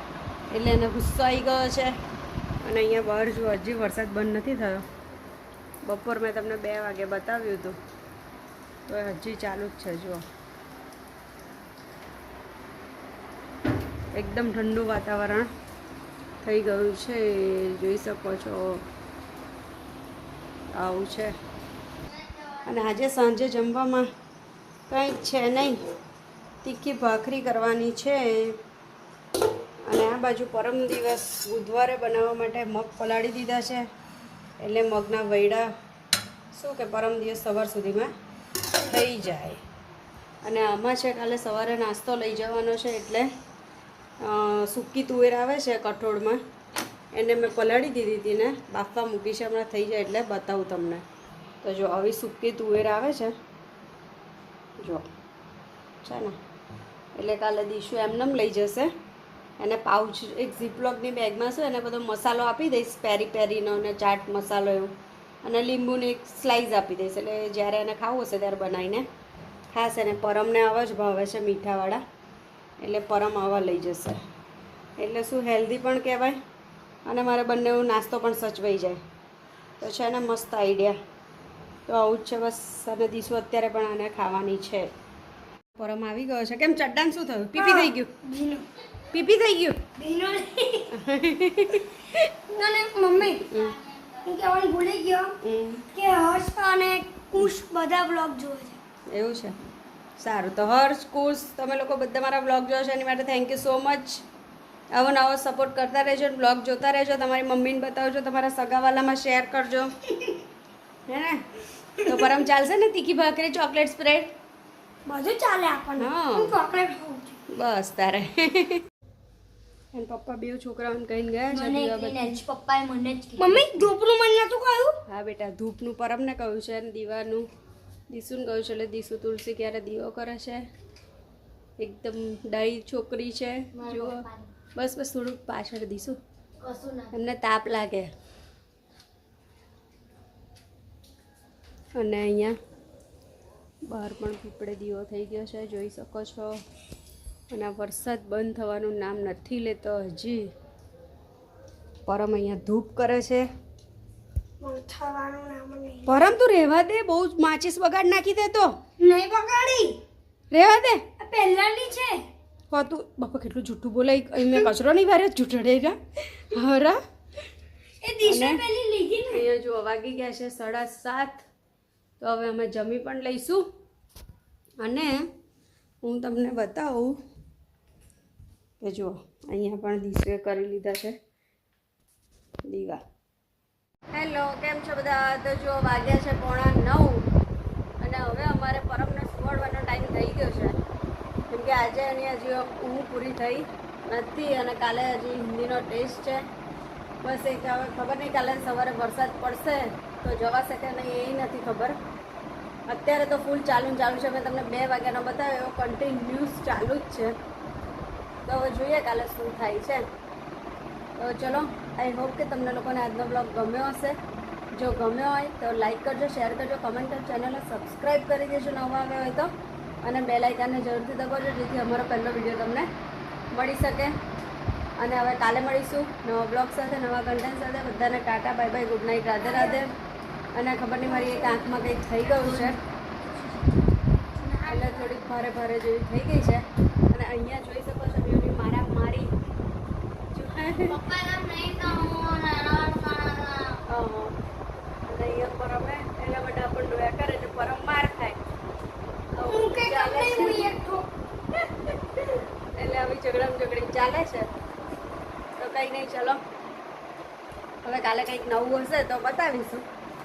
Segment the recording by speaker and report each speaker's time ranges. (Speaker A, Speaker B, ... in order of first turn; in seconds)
Speaker A: 0.5-1.9, 2.6-4.8, 5.8-7.8, 8.9-10.2, 14.1-15.5, 16.4-18.8, 20.7-21.3, 22.6-24.1, 24.9-25.8, 26.6-28.6, 29.9-33.9, 34.6-35.7, 36.5-38.1, 38.8-39.6, 40.4-43.3, 44.2-46.4, 47.1-51.0, 51.6-53.3, 54.8-55.0, 56.0-56.3, 57.1-58.9, 59.6-69.0, 69.7-72.0, 72.8-74.2, 75.0-76.4, 77.0-79.0, 79.8-81.0, 81.9-84.9, 85.8-88.1, 89.1-89.8, 90.9-91.9, 93.4-93.7, 95.4-95.8, 99.1-99.6, 100.2-104.2, 104.9-109.9, 111.1-111.4, 112.0-114.3, 116.0-116.5, 117.5-118.8, 119.9-122.4, 125.1-127.4, 128.1-130.6, 131.8-134.2, 134.7-136.2, 137.1-138.1, 142.0-142.6, 143.9-146.5, 147.5-150.5, 152.1-153.5, 156.0-158.7, 160.5-161.0, 162.7-167.0, 168.2-168.6, 169.3-171.4, 172.2-173.6, 174.8-175.2, 176.0-177.1, 178.8-181.1, 182.7-183.0, 184.1-187.2, 188.0-190.8, 191.5-196.4, 197.2-201.9, 202.9-207.3, 208.4-210.0, 211.2-214.2, 214.8-219.5, 220.0-222.9, 223.5-224.1, 225.0-229.9, 230.5-232.8, 234.7-239.3, 240.3-241.0, 243.9-244.3, 245.1-248.4, 249.3-250.7, 251.7-254.5, 255.6-256.4, 257.8-259.8
Speaker B: 22.1-22.7, 93.5-94.2, 121.5-123.9, 133.7-134.5, 136.6-137.1, 231.2-233.7, 234.3-235.1, 240.8-243.8
Speaker C: 87.5-88.7, 90.0-90.9, 92.4-93.5, 94.2-95.3, 95.9-98.8, 115.1-117.4, 123.4-125.0, 154.6-156.1, 159.0-160.0, 161.2-162.2, 168.0-169.4, 249.4-251.1